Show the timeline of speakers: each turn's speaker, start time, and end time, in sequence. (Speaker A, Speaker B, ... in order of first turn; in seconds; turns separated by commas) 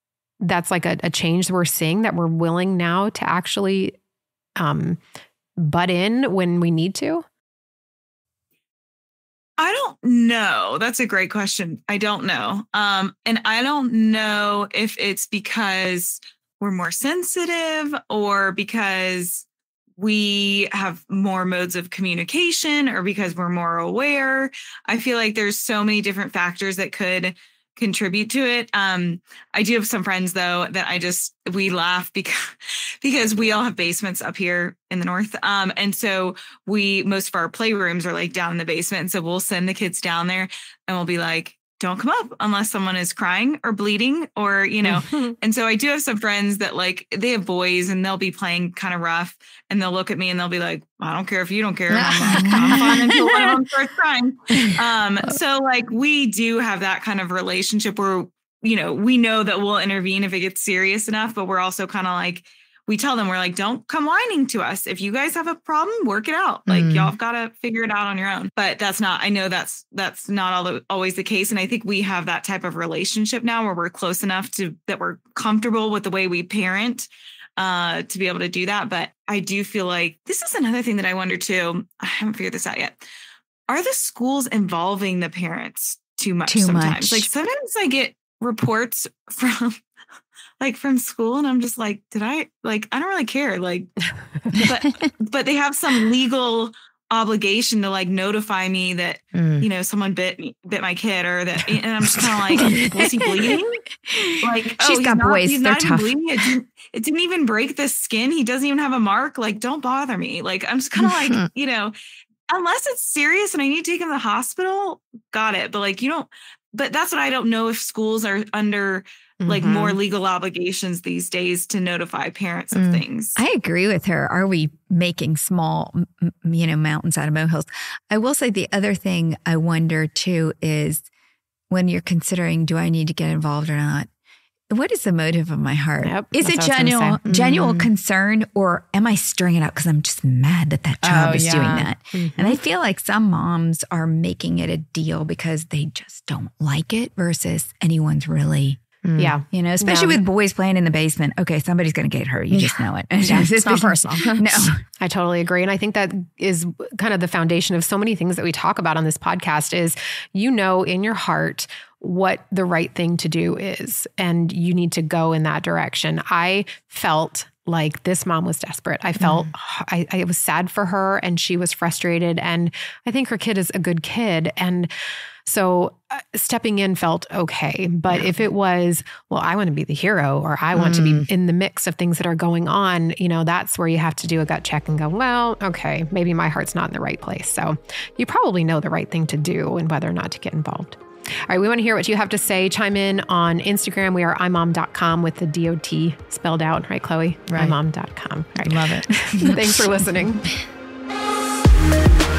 Speaker A: 0.4-4.0, Speaker A: 4.6-5.0, Speaker A: 5.6-7.2, Speaker B: 9.6-19.4, Speaker B: 20.0-83.0, Speaker A: 44.8-45.3, Speaker C: 51.9-53.0, Speaker D: 52.3-53.5, Speaker C: 66.7-67.1, Speaker B: 83.7-89.7, Speaker D: 86.5-87.3, Speaker B: 90.6-93.9, Speaker B: 94.6-103.8, Speaker C: 99.3-99.6, Speaker D: 102.5-103.6, Speaker D: 104.1-106.1, Speaker B: 104.4-111.9, Speaker C: 111.0-111.5, Speaker B: 112.5-123.4, Speaker A: 119.4-120.0, Speaker C: 122.7-123.0, Speaker D: 123.4-131.1, Speaker D: 131.7-134.1, Speaker D: 134.7-148.8, Speaker A: 136.0-137.2, Speaker C: 137.3-137.9, Speaker C: 141.0-141.9, Speaker A: 142.1-142.6, Speaker C: 149.0-149.3, Speaker A: 149.2-150.2, Speaker D: 149.5-154.8, Speaker C: 152.5-154.7, Speaker A: 153.2-153.5, Speaker A: 155.0-174.9, Speaker C: 169.2-169.5, Speaker A: 175.4-200.5, Speaker C: 180.7-181.3, Speaker C: 197.5-197.8, Speaker C: 198.6-199.6